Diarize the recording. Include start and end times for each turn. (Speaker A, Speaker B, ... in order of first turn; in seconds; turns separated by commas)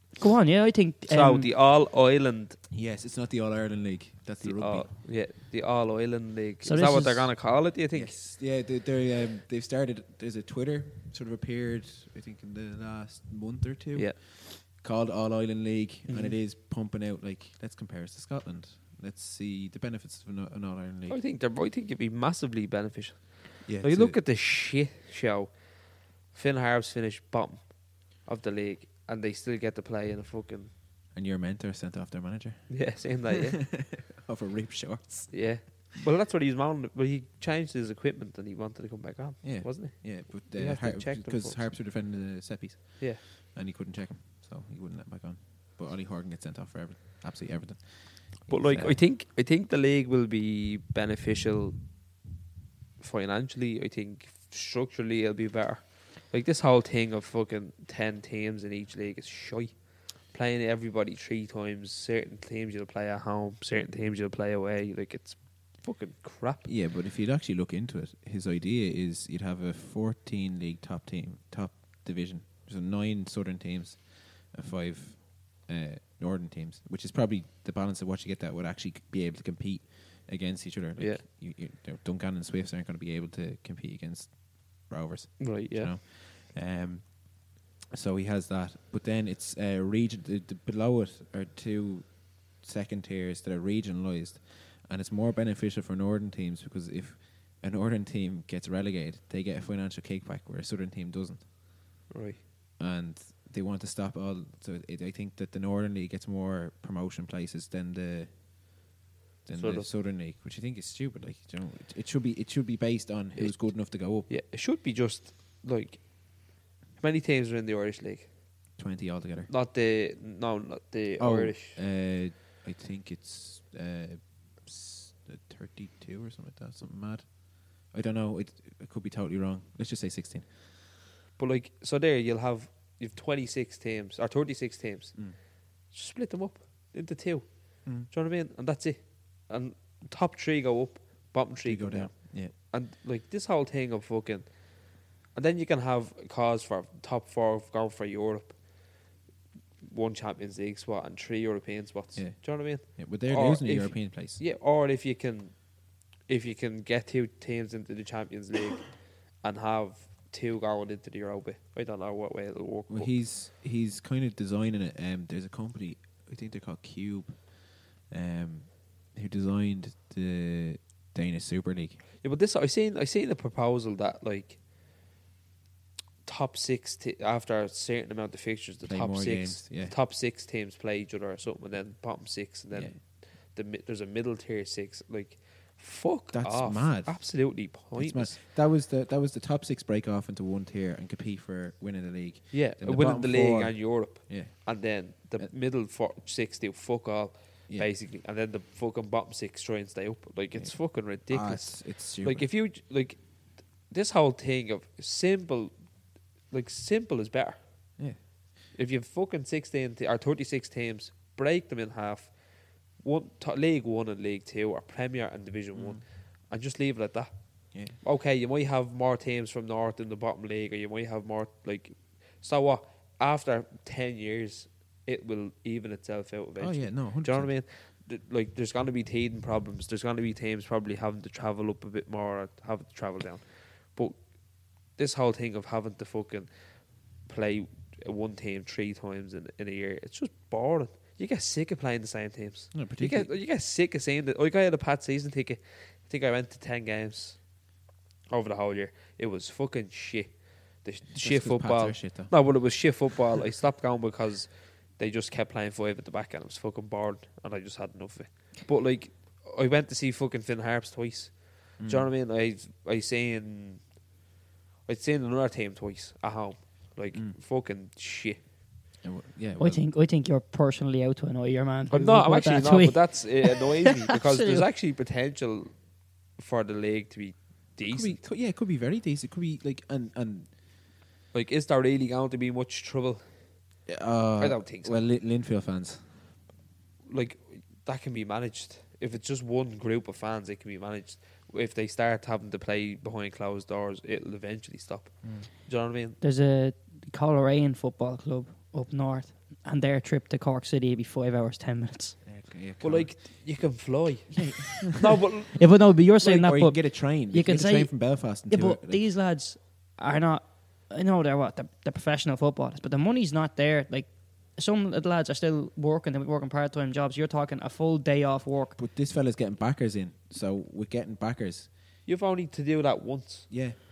Speaker A: 0.2-1.5, Speaker B: 1.1-2.6, Speaker C: 2.7-4.9, Speaker B: 4.4-8.2, Speaker A: 6.6-7.3, Speaker C: 7.9-21.2, Speaker B: 16.1-16.3, Speaker B: 21.1-30.7, Speaker C: 23.6-24.2, Speaker C: 31.1-35.8, Speaker B: 32.7-33.6, Speaker B: 35.3-41.7, Speaker C: 39.4-49.0, Speaker B: 48.5-51.8, Speaker B: 53.0-66.7, Speaker C: 66.7-101.5, Speaker B: 81.0-81.2, Speaker B: 85.4-85.9, Speaker B: 102.1-102.4, Speaker C: 102.8-108.7, Speaker C: 109.5-114.3, Speaker B: 109.6-109.9, Speaker B: 113.4-118.3, Speaker C: 118.8-119.5, Speaker B: 119.5-121.8, Speaker C: 121.2-130.5, Speaker B: 131.4-149.0, Speaker C: 137.8-138.1, Speaker C: 141.6-142.5, Speaker B: 149.8-163.2, Speaker C: 152.2-154.4, Speaker C: 162.9-172.0, Speaker B: 172.2-174.6, Speaker B: 176.2-188.4, Speaker C: 178.8-179.9, Speaker C: 182.7-183.0, Speaker C: 186.3-195.5, Speaker B: 192.5-205.9, Speaker C: 200.6-202.5, Speaker B: 206.5-208.0, Speaker C: 208.0-208.2, Speaker B: 208.7-247.6, Speaker C: 215.7-216.0, Speaker C: 217.7-218.0, Speaker C: 226.6-227.5, Speaker C: 242.7-243.3, Speaker B: 248.3-264.0, Speaker C: 251.2-252.5, Speaker C: 261.8-262.1, Speaker B: 264.9-268.4, Speaker C: 267.1-267.4, Speaker C: 269.0-269.8, Speaker A: 269.6-274.7, Speaker B: 271.9-278.2, Speaker C: 277.9-280.5, Speaker B: 281.3-283.2, Speaker C: 283.9-286.1, Speaker B: 284.4-285.0, Speaker B: 287.1-296.2, Speaker C: 295.2-295.5, Speaker A: 296.2-302.2, Speaker C: 302.2-303.7, Speaker B: 302.8-305.7, Speaker C: 304.4-304.8, Speaker A: 305.6-318.8, Speaker C: 306.2-309.0, Speaker C: 318.8-321.7, Speaker B: 322.1-323.5, Speaker C: 323.5-323.8